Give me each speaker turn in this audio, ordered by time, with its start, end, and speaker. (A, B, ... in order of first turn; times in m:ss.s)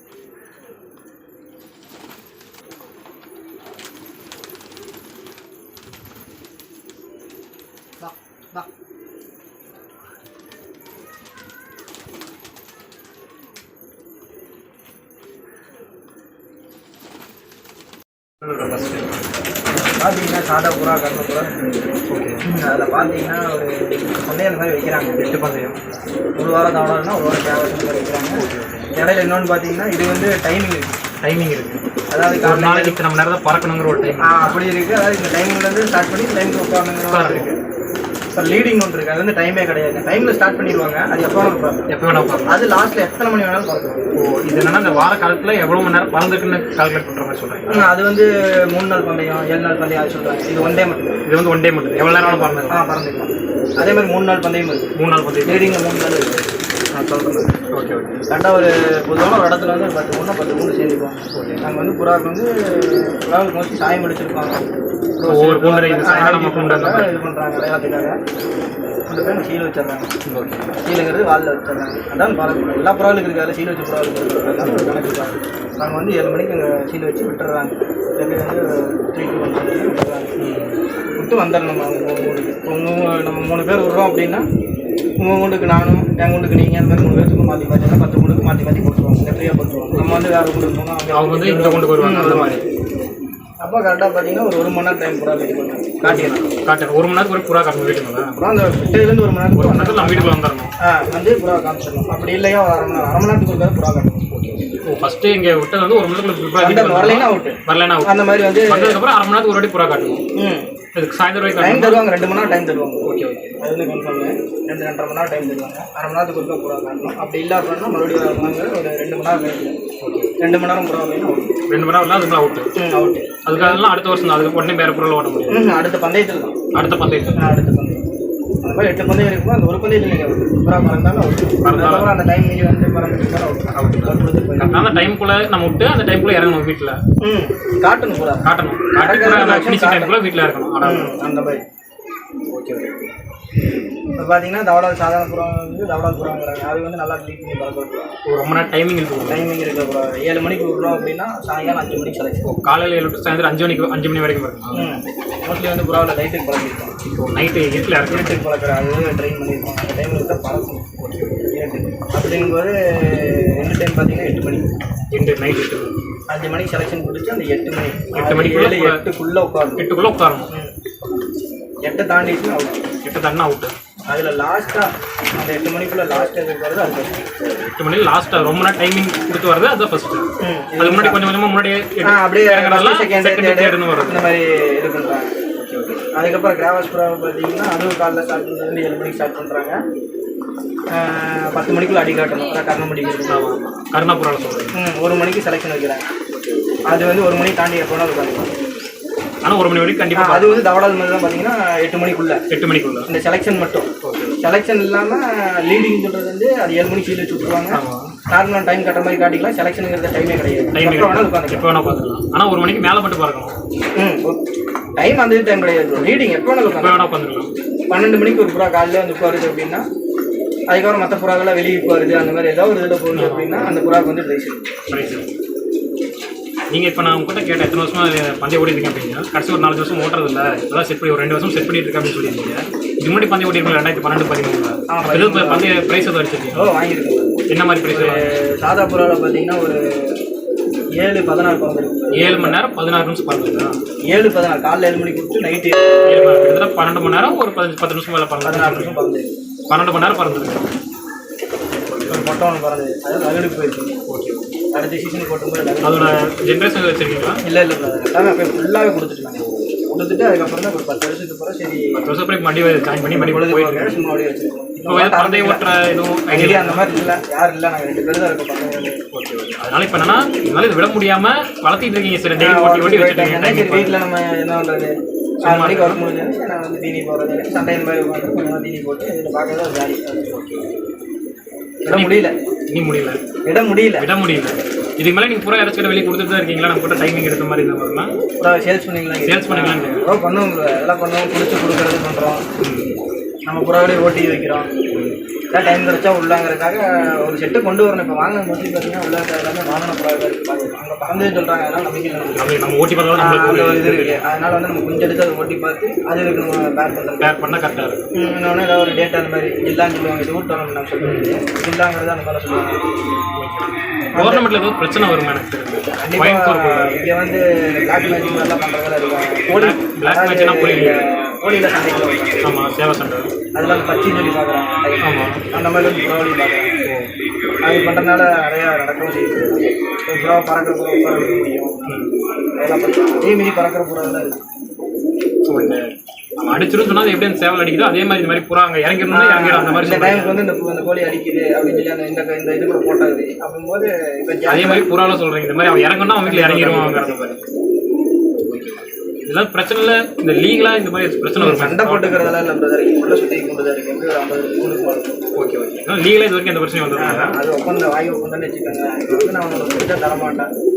0:18.4-0:19.2 A
0:19.8-0:21.8 B
0:22.1-0:22.4 A
0:22.4-0:25.2 B
0:25.2-0:25.8 A
0:26.4-0:31.0 B
0:28.4-0:28.9 A
0:31.2-0:31.8 A
0:32.1-0:33.0 B
0:32.4-0:34.6 A
0:34.2-0:37.6 B
0:37.1-0:37.5 A
0:38.3-0:41.9 B
0:41.9-0:42.6 A
0:42.5-0:44.0 B
0:44.1-0:47.9 A
0:47.7-0:51.2 B
0:51.2-0:52.9 A
0:52.2-0:54.9 B
0:54.9-0:55.8 A
0:55.4-0:56.4 B
0:56.9-0:57.5 B
0:57.7-0:58.3 A
0:58.3-1:04.6 B
1:01.3-1:01.6 A
1:05.2-1:08.2 B
1:05.2-1:07.2 A
1:09.1-1:10.1 B
1:10.2-1:10.7 A
1:10.8-1:20.3 B
1:14.6-1:14.9 A
1:20.4-1:20.8 A
1:21.1-1:24.4 B
1:25.2-1:32.6 B
1:31.1-1:32.6 A
1:33.6-1:36.4 B
1:36.0-1:38.4 A
1:38.4-1:44.2 B
1:39.5-1:40.7 A
1:44.3-1:50.2 A
1:46.6-1:49.0 B
1:50.4-1:50.7 B
1:50.9-1:52.0 A
1:51.6-1:59.8 B
1:53.0-1:53.6 A
2:00.0-2:00.3 A
2:00.4-2:01.5 B
2:01.7-2:02.7 A
2:02.8-2:03.8 B
2:03.4-2:05.7 A
2:05.5-2:06.6 B
2:06.7-2:07.6 A
2:07.4-2:08.0 B
2:08.6-2:14.9 B
2:11.6-2:12.1 A
2:13.7-2:17.0 A
2:17.2-2:18.5 B
2:18.4-2:21.1 A
2:19.0-2:20.2 B
2:20.8-2:21.6 B
2:22.5-2:23.0 A
2:24.2-2:28.1 B
2:28.2-2:29.4 A
2:29.3-2:32.6 B
2:32.5-2:35.0 A
2:34.7-2:37.0 B
2:37.1-2:38.4 A
2:38.0-2:44.7 B
2:41.0-2:41.3 A
2:45.1-2:45.9 A
2:46.3-2:49.8 B
2:48.1-2:49.0 A
2:49.8-2:50.5 A
2:51.8-2:52.8 B
2:53.0-2:53.7 A
2:54.1-2:57.6 B
2:57.4-3:00.3 A
3:00.4-3:01.2 B
3:00.8-3:04.3 A
3:02.0-3:05.3 B
3:05.6-3:06.0 A
3:06.1-3:09.8 B
3:10.9-3:13.5 B
3:13.3-3:14.7 A
3:14.7-3:16.1 B
3:16.9-3:18.5 B
3:19.4-3:20.6 A
3:20.1-3:22.4 B
3:22.5-3:23.1 A
3:23.0-3:31.7 B
3:24.0-3:24.4 A
3:27.7-3:28.1 A
3:30.7-3:33.5 A
3:34.0-3:34.4 B
3:35.0-3:37.0 B
3:36.6-3:37.5 A
3:37.9-3:39.8 B
3:40.7-3:44.7 B
3:43.1-3:43.8 A
3:44.9-3:45.3 A
3:46.7-3:56.7 A
3:54.9-3:55.7 B
3:56.5-4:00.2 B
3:57.5-3:58.3 A
4:01.0-4:02.6 B
4:02.1-4:03.7 A
4:04.0-4:06.7 B
4:06.0-4:08.9 A
4:08.4-4:09.3 B
4:09.7-4:10.7 A
4:11.7-4:12.3 A
4:12.1-4:14.0 B
4:14.1-4:14.5 A
4:14.7-4:16.2 B
4:15.8-4:17.4 A
4:17.4-4:22.1 B
4:21.9-4:24.0 A
4:23.1-4:25.7 B
4:24.9-4:27.1 A
4:26.3-4:29.0 B
4:29.1-4:34.0 A
4:32.4-4:40.4 B
4:35.4-4:36.0 A
4:40.3-4:40.6 A
4:41.8-4:42.3 B
4:41.9-4:43.2 A
4:43.5-4:44.1 B
4:44.0-4:48.1 A
4:48.4-4:52.4 B
4:49.2-4:50.0 A
4:52.6-4:53.0 A
4:53.5-4:54.7 B
4:54.9-4:55.2 A
4:55.5-5:02.5 B
5:02.3-5:04.2 A
5:03.1-5:07.3 B
5:07.2-5:08.0 A
5:08.1-5:12.8 B
5:11.0-5:11.4 A
5:13.4-5:17.0 A
5:14.1-5:14.5 B
5:16.0-5:22.5 B
5:19.5-5:21.0 A
5:22.4-5:23.3 A
5:23.6-5:26.8 B
5:25.0-5:25.4 A
5:26.8-5:27.1 A
5:27.6-5:31.9 B
5:31.8-5:32.2 A
5:32.6-5:34.4 B
5:35.5-5:40.4 A
5:39.1-5:44.8 B
5:44.5-5:47.4 A
5:46.2-5:47.3 B
5:48.4-5:52.4 A
5:51.4-5:55.2 B
5:55.3-5:57.4 A
5:57.0-6:00.5 B